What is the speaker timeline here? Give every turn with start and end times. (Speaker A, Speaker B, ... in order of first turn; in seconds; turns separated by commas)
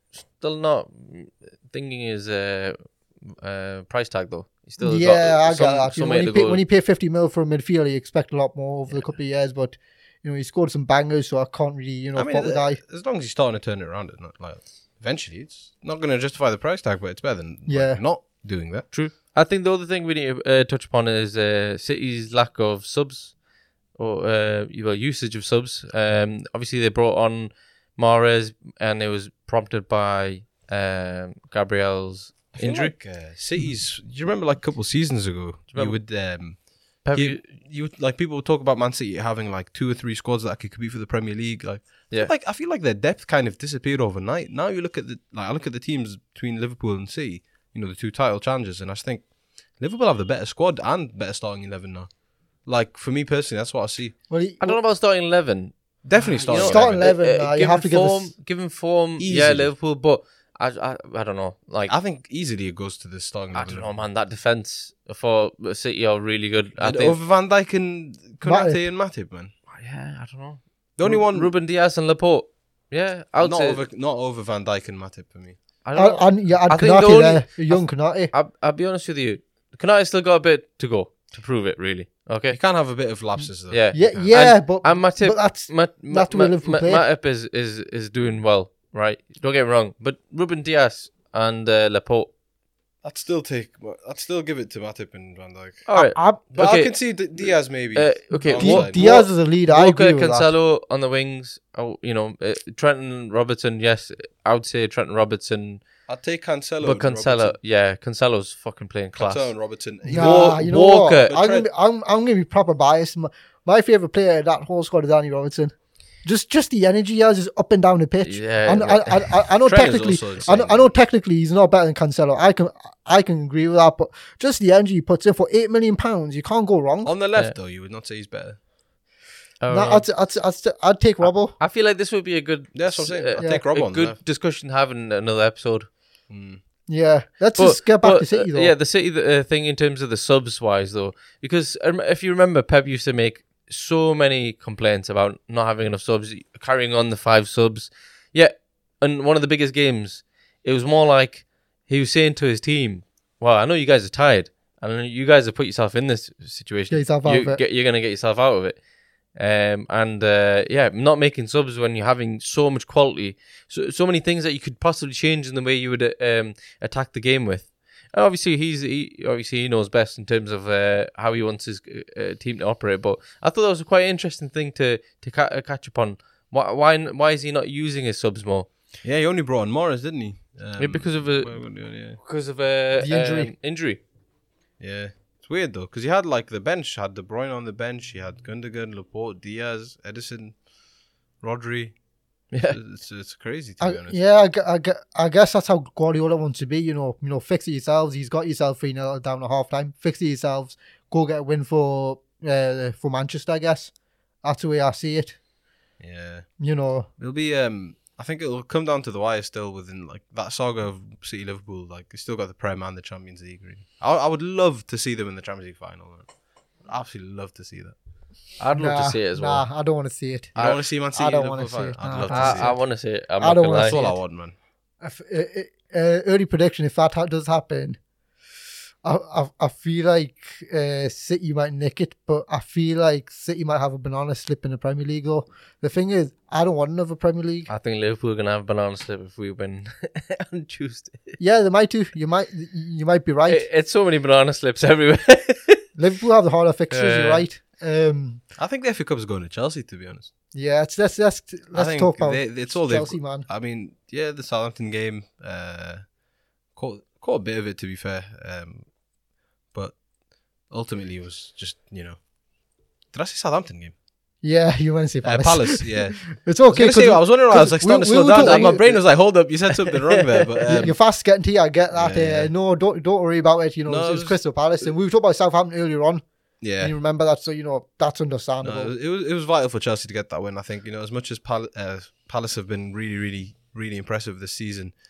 Speaker A: 0.4-6.6, Speaker B: 4.8-12.8, Speaker C: 12.2-18.9, Speaker B: 17.7-18.0, Speaker A: 18.9-23.4, Speaker A: 24.0-33.0, Speaker C: 32.5-49.3, Speaker A: 37.0-37.4, Speaker C: 49.8-52.1, Speaker C: 52.7-54.1, Speaker B: 54.3-54.8, Speaker A: 54.6-61.9, Speaker C: 56.0-57.1, Speaker B: 56.5-58.3, Speaker C: 59.2-59.7, Speaker C: 61.9-63.9, Speaker A: 63.5-67.2, Speaker C: 66.8-69.5, Speaker B: 68.4-68.8, Speaker A: 69.7-73.8, Speaker C: 71.0-71.5, Speaker C: 73.4-75.6, Speaker A: 75.8-82.6, Speaker B: 76.0-78.3, Speaker C: 82.5-84.4, Speaker A: 83.7-92.3, Speaker B: 83.9-87.0, Speaker C: 93.0-95.9, Speaker A: 95.9-105.8, Speaker B: 95.9-96.4, Speaker C: 96.5-99.2, Speaker B: 98.3-100.5, Speaker C: 106.1-107.6, Speaker A: 106.8-109.5, Speaker C: 109.2-111.7, Speaker B: 110.1-115.7, Speaker A: 110.1-111.3, Speaker B: 116.2-127.1, Speaker A: 118.2-119.3, Speaker C: 119.7-120.9, Speaker C: 127.0-128.6, Speaker A: 129.6-130.1, Speaker B: 129.7-131.6, Speaker A: 131.2-135.9, Speaker C: 132.7-134.2, Speaker C: 136.3-136.6, Speaker B: 136.9-138.7, Speaker A: 137.6-158.8, Speaker B: 156.9-157.6, Speaker A: 159.3-178.7, Speaker C: 179.0-182.2, Speaker A: 180.8-184.0, Speaker B: 183.0-183.5, Speaker C: 184.8-190.6, Speaker C: 191.4-192.0, Speaker A: 192.5-192.8, Speaker C: 192.7-194.2, Speaker B: 193.8-203.9, Speaker B: 204.4-205.4, Speaker C: 206.0-206.5, Speaker B: 206.6-207.1, Speaker C: 207.2-216.3, Speaker C: 216.8-217.9, Speaker A: 218.6-219.7, Speaker B: 218.7-224.2, Speaker C: 220.6-222.8, Speaker A: 222.3-224.0, Speaker C: 223.8-224.5, Speaker B: 225.0-228.0, Speaker B: 229.0-237.7, Speaker A: 237.7-241.4, Speaker B: 241.4-243.7, Speaker A: 243.5-245.8, Speaker B: 246.0-248.4, Speaker A: 246.9-247.4, Speaker C: 248.6-250.3, Speaker B: 250.5-253.5, Speaker C: 251.7-256.1, Speaker C: 256.8-258.9, Speaker C: 259.7-260.0, Speaker C: 260.6-262.2, Speaker C: 263.1-263.9, Speaker B: 264.4-269.0, Speaker C: 265.2-271.0, Speaker A: 268.4-268.8, Speaker A: 270.1-270.9, Speaker B: 270.7-276.2, Speaker C: 271.9-272.5, Speaker C: 273.9-274.4, Speaker C: 276.6-276.9, Speaker B: 276.8-278.9, Speaker C: 278.6-284.9